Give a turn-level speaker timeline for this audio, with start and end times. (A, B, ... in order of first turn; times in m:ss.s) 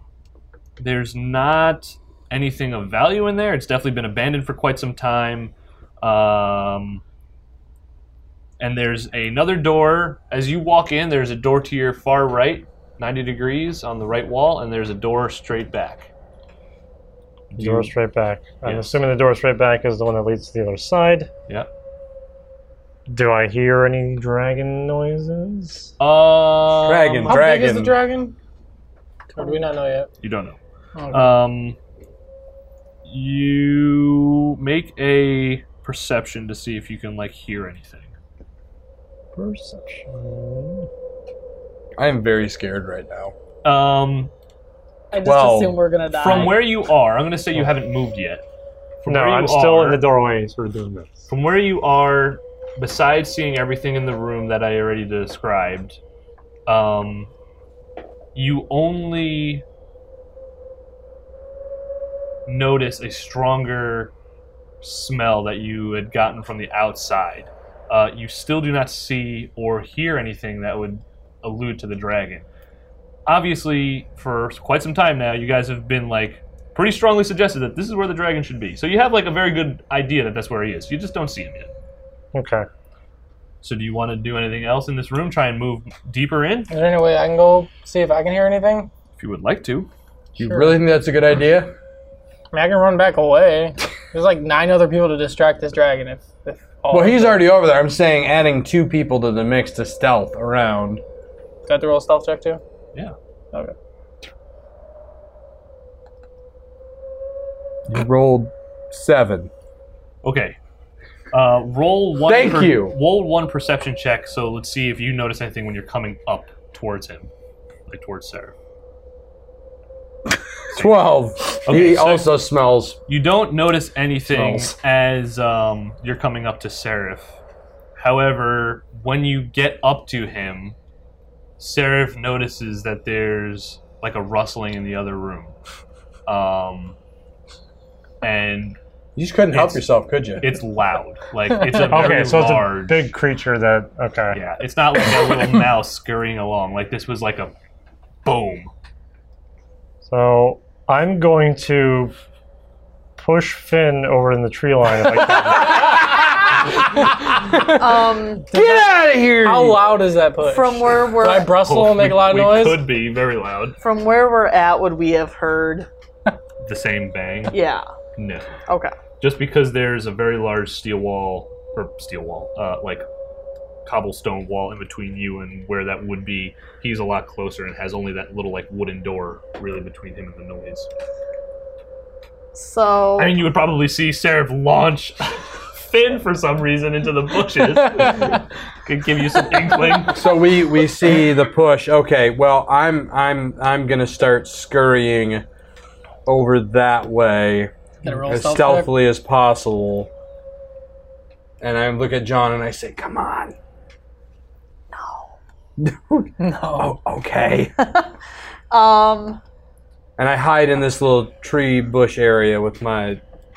0:00.8-0:07.0 A
0:08.6-0:16.1 A
0:17.5-0:17.9 A
0:17.5-0:21.3 B
0:18.6-0:19.0 A
0:23.1-0:25.9 B
0:26.0-0:27.5 A
0:26.8-0:27.9 C
0:27.3-0:28.4 D
0:29.3-0:30.1 D
0:30.2-0:30.6 A
0:30.9-0:31.4 D
0:31.1-0:31.8 A
0:33.0-0:38.1 A
0:39.3-0:40.9 B
0:42.0-0:43.3 C
0:43.6-0:44.3 A
0:45.1-0:46.6 E
0:45.2-0:46.5 C
0:46.2-0:48.4 A
0:49.0-0:50.1 A
0:49.1-0:51.3 B
0:51.3-0:56.0 A
0:56.7-0:57.3 A
0:58.3-0:59.6 A
1:02.5-1:04.1 A
1:04.8-1:12.4 A
1:13.3-1:21.7 A
1:22.3-1:22.7 B
1:23.6-1:26.7 A
1:26.7-1:28.9 D
1:29.2-1:29.9 A
1:30.4-1:30.8 D
1:30.4-1:31.7 C
1:32.5-1:37.5 D
1:36.9-1:41.0 C
1:41.7-1:42.6 D
1:47.9-1:49.5 C
1:50.2-1:50.6 A
1:51.3-1:57.3 A
1:52.2-1:53.0 C
1:57.9-1:58.5 A
2:00.7-2:03.0 C
2:00.7-2:02.4 A
2:03.1-2:07.3 A
2:04.3-2:04.7 C
2:08.0-2:10.8 A
2:11.6-2:15.5 A
2:16.3-2:17.0 A
2:18.2-2:18.8 A
2:19.2-2:20.6 C
2:19.5-2:19.8 A
2:20.4-2:23.1 A
2:21.7-2:24.4 B
2:24.3-2:27.5 A
2:28.2-2:28.7 A
2:30.0-2:32.1 B
2:33.2-2:36.1 B
2:35.5-2:37.6 C
2:37.6-2:38.5 E
2:38.5-2:39.9 C
2:38.5-2:38.9 D
2:39.4-2:42.8 D
2:40.4-2:41.6 E
2:41.5-2:43.8 A
2:43.8-2:45.9 E
2:46.6-2:47.6 A
2:47.5-2:47.9 E
2:48.2-2:48.5 A
2:49.2-2:53.0 A
2:53.8-3:00.9 A
3:02.5-3:03.4 E
3:03.2-3:10.2 A
3:10.0-3:15.4 C
3:16.2-3:17.7 C
3:18.0-3:18.9 D
3:18.2-3:20.1 C
3:21.6-3:23.6 C
3:24.9-3:25.3 E
3:25.8-3:27.7 C
3:26.4-3:27.0 D
3:27.8-3:28.1 E
3:28.7-3:29.4 E
3:30.2-3:33.2 C